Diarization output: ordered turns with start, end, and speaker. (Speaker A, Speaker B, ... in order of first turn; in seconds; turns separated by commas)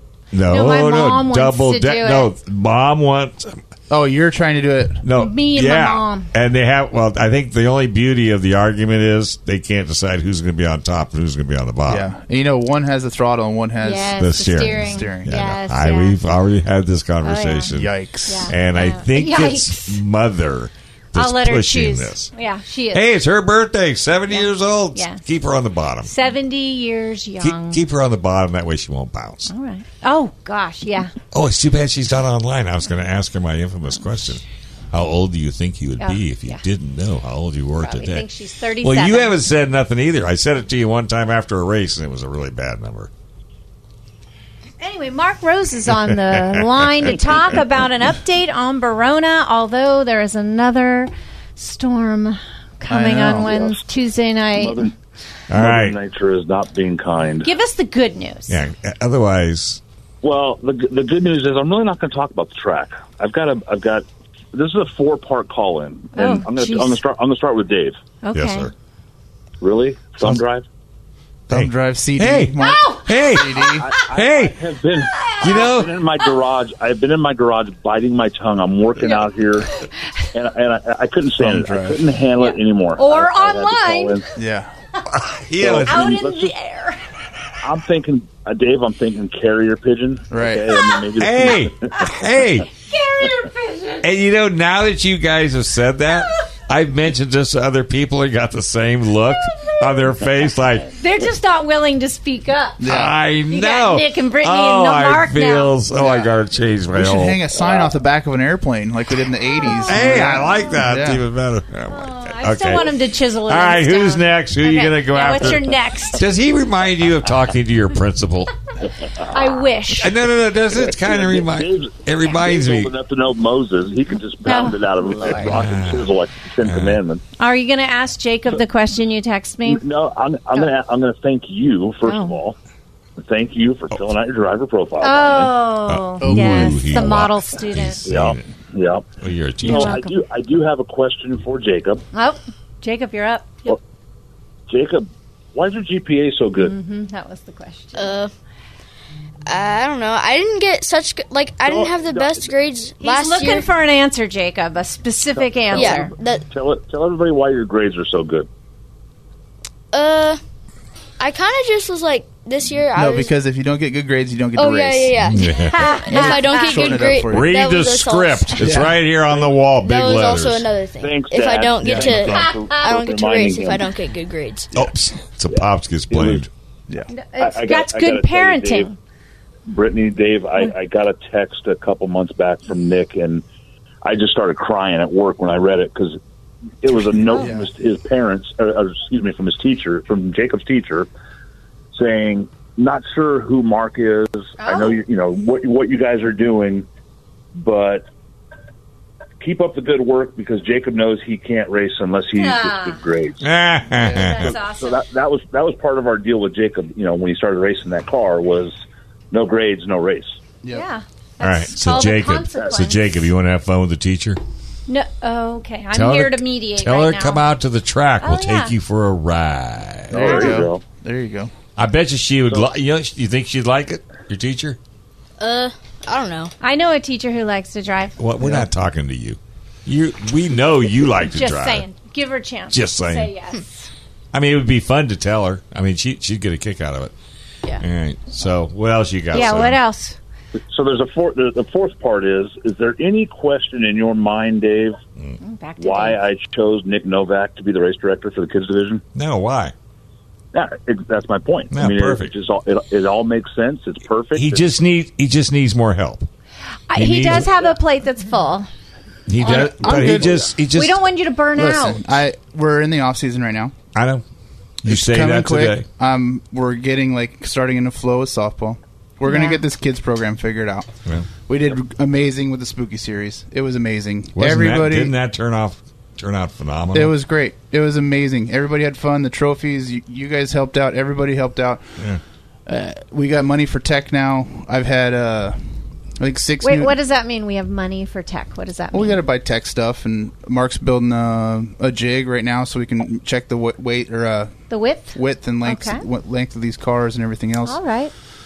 Speaker A: 0.3-3.6, Speaker B: 0.5-2.3, Speaker C: 3.9-5.0, Speaker A: 5.0-12.1, Speaker B: 5.1-6.3, Speaker C: 11.9-15.3, Speaker B: 13.8-16.2, Speaker A: 14.2-22.3, Speaker B: 17.2-17.7, Speaker C: 17.7-18.5, Speaker B: 18.3-20.0, Speaker B: 21.1-23.1, Speaker A: 22.9-26.1, Speaker B: 24.3-25.2, Speaker B: 26.0-27.8, Speaker A: 27.4-29.5, Speaker B: 29.5-31.1, Speaker A: 31.3-38.3, Speaker B: 36.0-36.6, Speaker B: 37.8-39.4, Speaker A: 38.8-43.1, Speaker B: 44.8-54.9, Speaker A: 45.9-47.6, Speaker C: 52.9-53.7, Speaker D: 54.5-54.9, Speaker A: 55.5-56.0, Speaker D: 55.5-57.5, Speaker B: 57.4-58.6, Speaker A: 58.5-59.8, Speaker D: 60.2-68.0, Speaker B: 66.1-67.0, Speaker B: 68.2-68.7, Speaker A: 68.3-68.7, Speaker D: 69.6-70.6, Speaker C: 71.5-73.9, Speaker A: 71.5-74.6, Speaker B: 72.6-73.1, Speaker D: 73.6-79.7, Speaker B: 75.2-75.7, Speaker A: 75.4-76.0, Speaker D: 80.3-84.3, Speaker C: 81.4-82.0, Speaker B: 82.4-84.2, Speaker C: 84.3-84.7, Speaker A: 85.1-86.2, Speaker D: 85.6-86.5, Speaker B: 85.8-87.0, Speaker D: 87.6-92.4, Speaker C: 90.3-90.9, Speaker A: 91.2-92.7, Speaker B: 92.9-94.0, Speaker A: 94.0-100.9, Speaker B: 100.9-102.8, Speaker C: 102.8-103.1, Speaker A: 102.8-107.4, Speaker B: 103.5-105.7, Speaker C: 105.9-106.3, Speaker C: 106.9-111.2, Speaker D: 107.6-107.9, Speaker B: 109.6-110.7, Speaker A: 109.8-118.5, Speaker B: 111.9-116.2, Speaker B: 119.2-120.1, Speaker A: 119.9-122.9, Speaker D: 120.7-127.2, Speaker B: 124.4-125.5, Speaker A: 125.3-126.1, Speaker A: 126.6-127.0, Speaker B: 127.4-129.8, Speaker D: 129.7-132.6, Speaker B: 132.0-132.4, Speaker D: 133.2-135.5, Speaker B: 135.0-138.0, Speaker A: 135.8-138.5, Speaker C: 136.2-137.2, Speaker D: 138.1-142.0, Speaker A: 139.2-139.9, Speaker B: 139.6-140.2, Speaker B: 142.1-143.5, Speaker D: 144.7-146.7, Speaker B: 146.6-148.2, Speaker E: 147.9-148.3, Speaker E: 149.5-153.7, Speaker D: 151.6-152.5, Speaker B: 153.0-156.1, Speaker D: 155.7-158.5, Speaker E: 155.7-156.4, Speaker E: 159.9-160.4, Speaker E: 161.2-163.3, Speaker C: 162.9-167.8, Speaker E: 164.6-168.9, Speaker A: 165.3-165.9, Speaker B: 165.5-167.1, Speaker A: 167.3-170.7, Speaker C: 168.6-169.0, Speaker E: 169.4-174.7, Speaker D: 171.0-173.9, Speaker A: 171.8-172.2, Speaker C: 171.8-172.4, Speaker B: 172.4-172.9, Speaker A: 174.7-176.5, Speaker D: 175.5-176.5, Speaker B: 177.1-178.9, Speaker D: 177.4-178.9, Speaker D: 179.7-183.4, Speaker D: 184.0-186.2, Speaker D: 186.8-191.1, Speaker C: 187.3-187.7, Speaker D: 191.9-196.9, Speaker B: 194.6-195.0, Speaker D: 197.5-198.1, Speaker D: 199.4-203.5, Speaker B: 202.3-203.0, Speaker A: 203.4-204.5, Speaker C: 204.0-204.5, Speaker B: 204.0-205.0, Speaker D: 204.4-208.8, Speaker D: 209.3-210.4, Speaker B: 210.7-213.0, Speaker A: 211.4-214.4, Speaker D: 212.5-212.8, Speaker B: 214.9-217.4, Speaker A: 215.9-220.7, Speaker B: 218.2-218.7, Speaker D: 220.1-220.8, Speaker C: 220.1-221.5, Speaker A: 221.8-224.8, Speaker E: 225.4-226.5, Speaker B: 226.6-228.1, Speaker A: 228.2-231.8, Speaker C: 228.4-228.7, Speaker B: 231.3-233.9, Speaker A: 232.7-233.3, Speaker A: 234.3-237.1, Speaker A: 237.8-239.8, Speaker B: 239.3-240.2, Speaker D: 240.7-245.0, Speaker B: 245.4-246.2, Speaker D: 245.8-249.0, Speaker A: 249.1-249.7, Speaker D: 250.5-254.7, Speaker A: 251.7-252.3, Speaker A: 254.3-256.3, Speaker B: 256.9-258.7, Speaker A: 256.9-257.7, Speaker A: 259.3-261.0, Speaker C: 259.4-260.5, Speaker B: 259.4-260.0, Speaker B: 260.7-262.0, Speaker C: 261.5-263.7, Speaker A: 263.9-264.2, Speaker A: 264.8-265.9, Speaker C: 264.8-275.1, Speaker B: 269.3-269.6, Speaker A: 274.4-277.1, Speaker C: 276.9-281.8, Speaker C: 282.7-285.6, Speaker C: 286.2-286.9, Speaker B: 286.6-289.2, Speaker C: 288.9-294.6, Speaker B: 294.7-296.0, Speaker C: 295.1-297.8, Speaker B: 297.6-298.1